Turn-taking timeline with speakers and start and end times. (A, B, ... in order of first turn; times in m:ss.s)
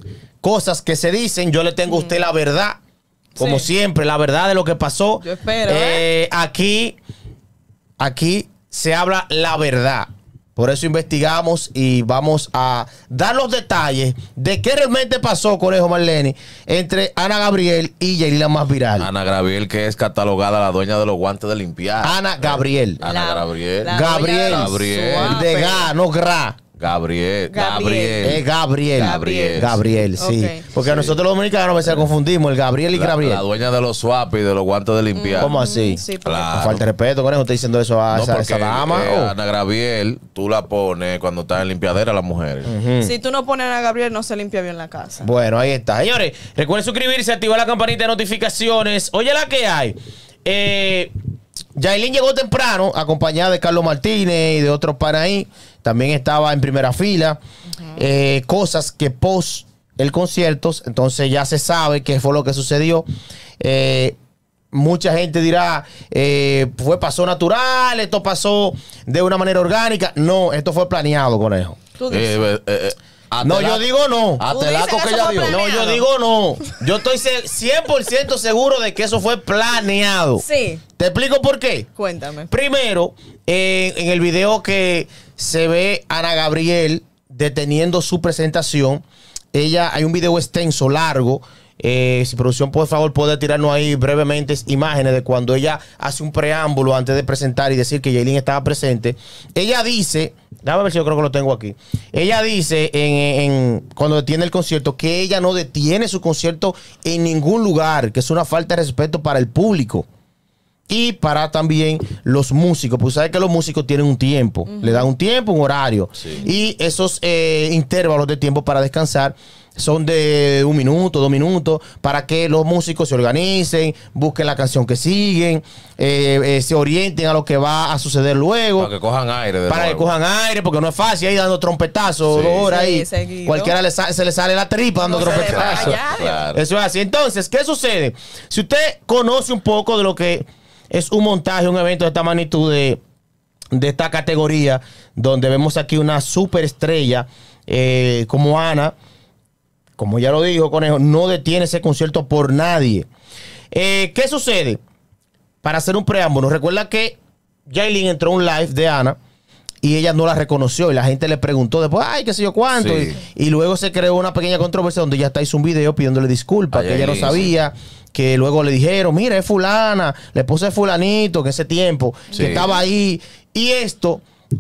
0:00.4-0:02.8 A
0:01.9-0:02.2 B
0:03.4-0:07.0 A
0:03.4-0:03.6 B
0:05.2-0:06.0 B
0:08.0-0:19.1 A
0:19.0-0:25.4 C
0:22.0-0:23.0 A
0:23.0-0:25.9 B
0:23.9-0:26.6 A
0:26.8-0:28.4 C
0:27.5-0:29.6 B
0:28.2-0:33.4 A
0:29.0-0:29.8 C
0:30.2-0:30.6 B
0:30.7-0:31.2 C
0:32.9-0:35.6 C
0:35.1-0:36.6 B
0:35.4-0:39.3 A
0:36.2-0:36.8 C
0:38.1-0:42.7 C
0:42.6-0:43.1 A
0:43.0-0:45.3 B
0:45.2-0:51.1 A
0:51.7-0:57.4 A
0:57.9-1:03.0 A
1:03.6-1:04.2 A
1:04.7-1:11.8 A
1:12.0-1:12.4 B
1:12.1-1:15.6 C
1:13.4-1:14.4 A
1:14.5-1:16.0 B
1:15.4-1:20.4 A
1:20.4-1:20.8 B
1:21.0-1:21.9 A
1:22.0-1:22.5 B
1:22.5-1:50.0 A
1:50.9-2:08.9 A
1:54.7-1:55.1 B
1:56.2-1:56.4 C
2:08.8-2:10.1 C
2:09.7-2:16.0 A
2:12.2-2:12.7 C
2:12.7-2:13.7 B
2:15.0-2:16.4 B
2:15.2-2:16.6 C
2:16.5-2:23.0 A
2:23.7-2:28.9 A
2:30.0-2:33.1 A
2:33.7-2:34.8 A
2:35.6-2:39.2 A
2:39.8-2:54.2 A
2:42.7-2:43.2 C
2:46.7-2:47.5 C
2:52.3-2:52.8 B
2:52.3-2:52.6 C